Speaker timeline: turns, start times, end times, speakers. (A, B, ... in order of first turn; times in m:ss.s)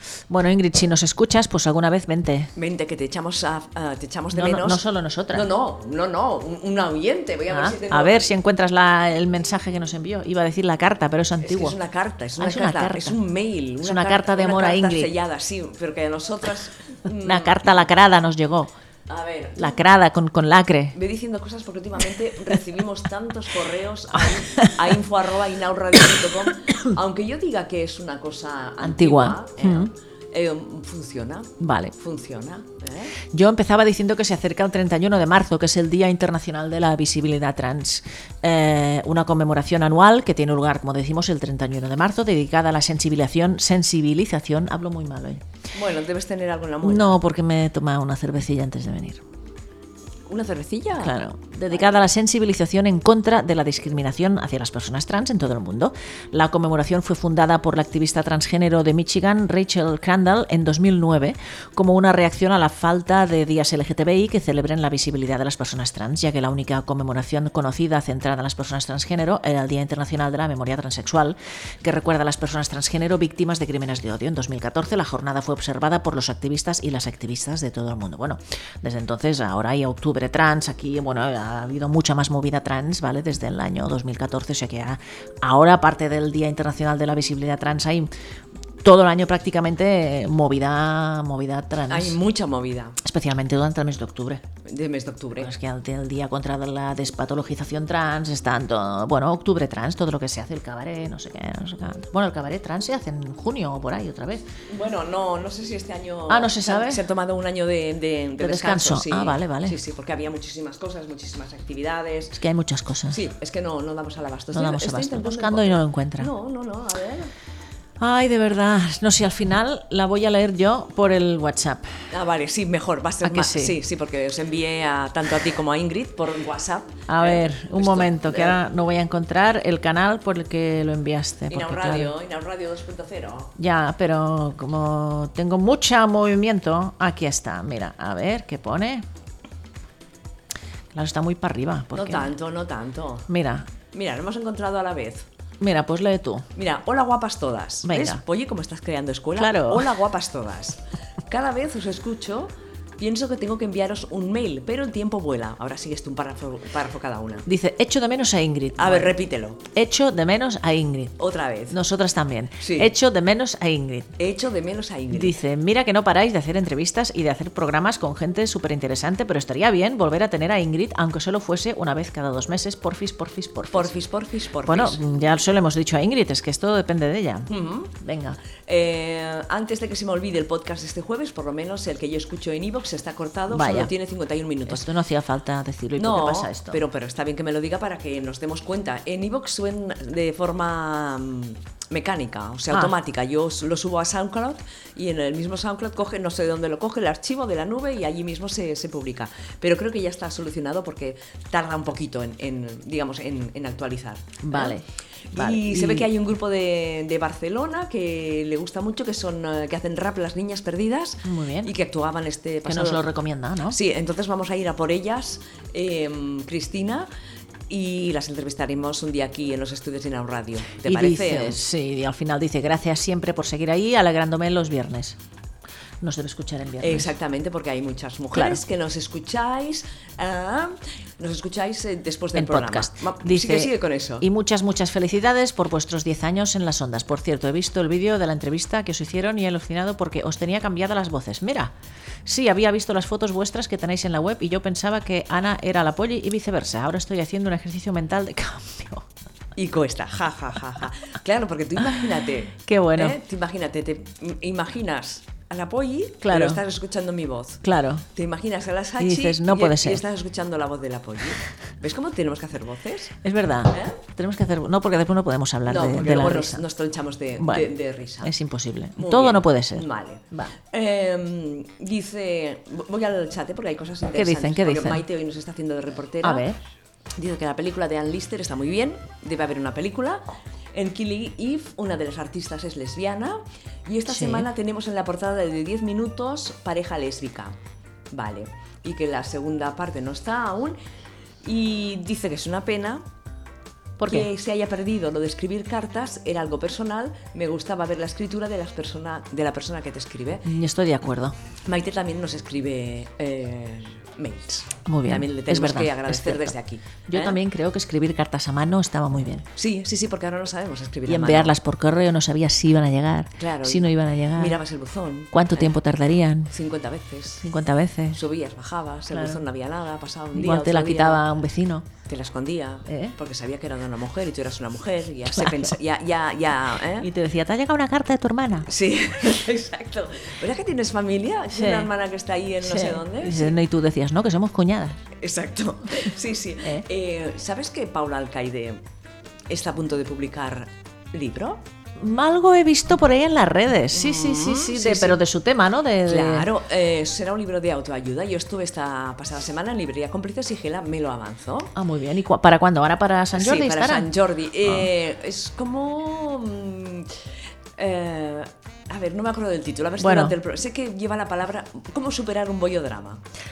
0:00.3-0:02.5 A
0:02.6-0:04.8 B
0:04.3-0:05.5 A
0:05.3-0:08.3 B
0:07.5-0:11.8 A
0:11.4-0:17.6 B
0:12.4-0:13.2 A
0:13.8-0:15.1 A
0:17.2-0:18.7 A
0:19.1-0:19.7 B
0:19.6-0:20.9 A
0:20.9-0:33.1 B
0:24.4-0:24.7 A
0:28.8-0:29.9 A
0:31.6-0:31.9 A
0:33.3-0:45.4 A
0:45.7-0:47.2 B
0:46.8-0:49.2 A
0:50.3-0:51.2 B
0:51.0-1:28.1 A
0:51.7-0:52.0 B
1:28.8-1:32.2 A
1:31.9-1:33.0 B
1:33.0-1:34.4 A
1:34.6-1:35.5 B
1:35.4-1:44.5 A
1:44.7-1:52.4 B
1:46.3-1:47.0 A
1:48.4-1:49.8 A
1:52.4-1:53.2 A
1:53.1-1:57.3 B
1:54.5-1:56.3 A
1:58.0-2:02.0 A
2:02.1-2:08.6 B
2:03.2-2:03.8 A
2:07.1-2:12.1 A
2:11.5-2:13.5 B
2:13.6-2:19.0 A
2:20.9-2:22.3 A
2:21.9-2:23.3 B
2:23.3-2:23.7 A
2:23.9-2:25.2 B
2:25.6-2:26.5 A
2:26.5-2:37.4 B
2:27.8-2:28.2 A
2:29.4-2:29.9 A
2:37.4-2:39.2 A
2:38.8-2:39.6 B
2:39.7-2:41.2 A
2:41.2-2:41.8 B
2:41.7-2:44.1 A
2:42.6-2:42.9 B
2:44.2-2:45.3 B
2:45.1-2:53.9 A
2:53.7-2:55.0 B
2:54.6-2:58.4 A
2:57.5-2:57.9 B
2:58.7-3:04.8 B
3:03.5-3:03.9 A
3:04.7-3:06.8 A
3:06.0-3:24.8 B
3:24.4-3:26.1 A
3:25.3-3:33.0 B
3:31.2-3:31.7 A
3:32.6-3:33.8 A
3:33.7-3:37.1 B
3:37.7-3:41.6 B
3:40.8-3:45.2 A
3:46.0-3:47.1 A
3:46.8-3:54.2 B
3:48.3-3:48.6 A
3:52.3-4:01.7 A
4:02.2-4:09.0 A
4:09.6-4:17.6 B
4:12.6-4:13.2 A
4:16.2-4:16.6 A
4:17.6-4:18.0 A
4:18.1-4:23.2 B
4:19.0-4:20.0 A
4:23.2-4:26.6 A
4:23.7-4:24.0 B
4:25.6-4:28.3 B
4:27.4-4:27.7 A
4:28.2-4:30.5 A
4:29.0-4:36.4 B
4:34.1-4:35.0 A
4:36.2-4:36.6 A
4:37.2-4:47.6 B
4:44.1-4:44.5 A
4:48.1-4:50.8 B
4:51.4-4:53.0 B
4:54.0-4:54.3 A
4:54.1-5:00.4 B
5:00.4-5:01.3 A
5:01.6-5:07.4 B
5:04.8-5:06.5 A
5:07.1-5:09.4 A
5:09.5-5:11.5 B
5:11.0-5:14.6 A
5:13.4-5:15.7 B
5:15.3-5:16.5 A
5:16.5-5:17.4 B
5:17.4-5:18.2 A
5:18.1-5:21.2 B
5:19.1-5:19.4 A
5:20.3-5:21.8 A
5:22.0-5:27.1 B
5:22.9-5:23.1 A
5:25.3-5:25.7 A
5:27.0-5:28.7 A
5:28.7-5:33.6 B
5:31.5-5:31.9 A
5:32.6-5:35.0 A
5:35.2-5:38.8 B
5:39.5-5:41.6 B
5:42.0-5:46.5 A
5:43.9-5:45.2 B
5:46.0-5:51.7 B
5:51.7-5:54.1 A
5:53.4-5:57.2 B
5:57.8-6:03.2 B
6:00.0-6:00.4 A